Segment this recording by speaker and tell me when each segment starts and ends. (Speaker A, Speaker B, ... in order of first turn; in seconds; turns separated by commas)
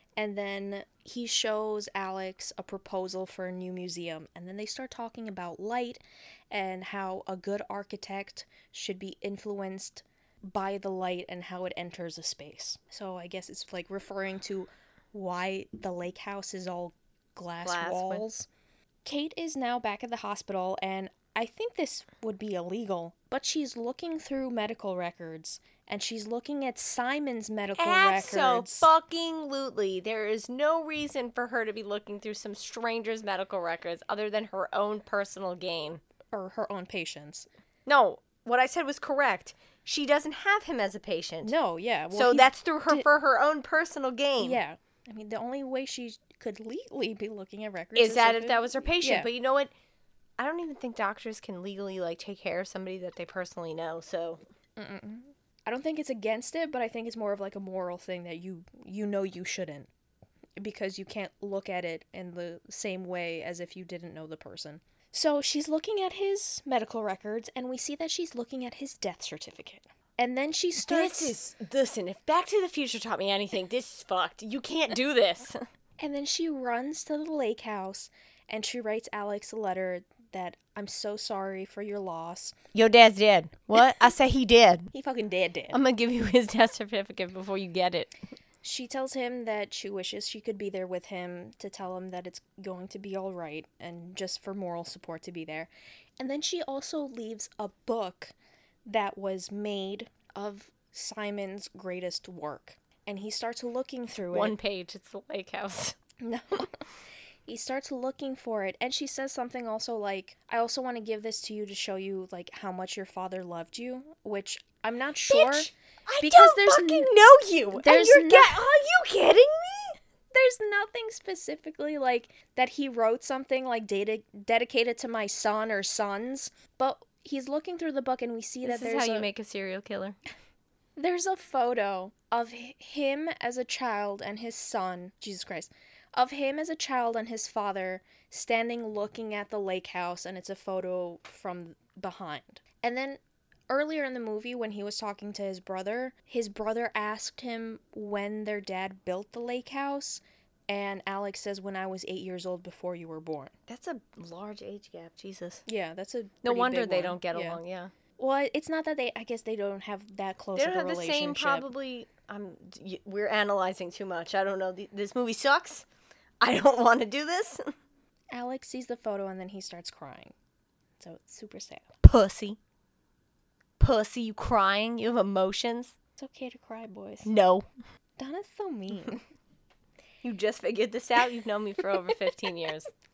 Speaker A: 0.2-18.5, Speaker B: 17.6-18.2, Speaker A: 19.1-28.9, Speaker B: 27.8-36.0, Speaker A: 36.3-37.5, Speaker B: 37.9-41.5, Speaker A: 41.4-43.1, Speaker B: 42.1-44.6, Speaker A: 44.4-49.3, Speaker B: 48.0-49.7, Speaker B: 50.4-54.4, Speaker A: 54.8-59.9, Speaker A: 60.6-71.4, Speaker B: 70.8-75.6, Speaker A: 76.0-82.5, Speaker B: 82.7-84.9, Speaker A: 84.9-85.8, Speaker B: 85.7-88.1, Speaker A: 88.6-98.3, Speaker A: 98.9-104.6, Speaker B: 104.3-106.0, Speaker A: 106.2-106.7, Speaker A: 107.5-117.1, Speaker B: 115.3-120.0, Speaker A: 117.7-118.6, Speaker A: 120.3-129.3, Speaker B: 128.6-130.2, Speaker A: 131.0-153.5, Speaker B: 153.7-155.6, Speaker A: 155.7-157.6, Speaker B: 156.4-157.9, Speaker A: 158.2-161.7, Speaker B: 160.6-165.9, Speaker B: 166.4-167.7, Speaker A: 168.3-170.3, Speaker A: 171.0-171.9, Speaker B: 172.0-172.6, Speaker B: 173.8-175.9, Speaker A: 176.2-177.3, Speaker B: 177.2-177.7, Speaker A: 178.2-179.2, Speaker B: 180.2-182.9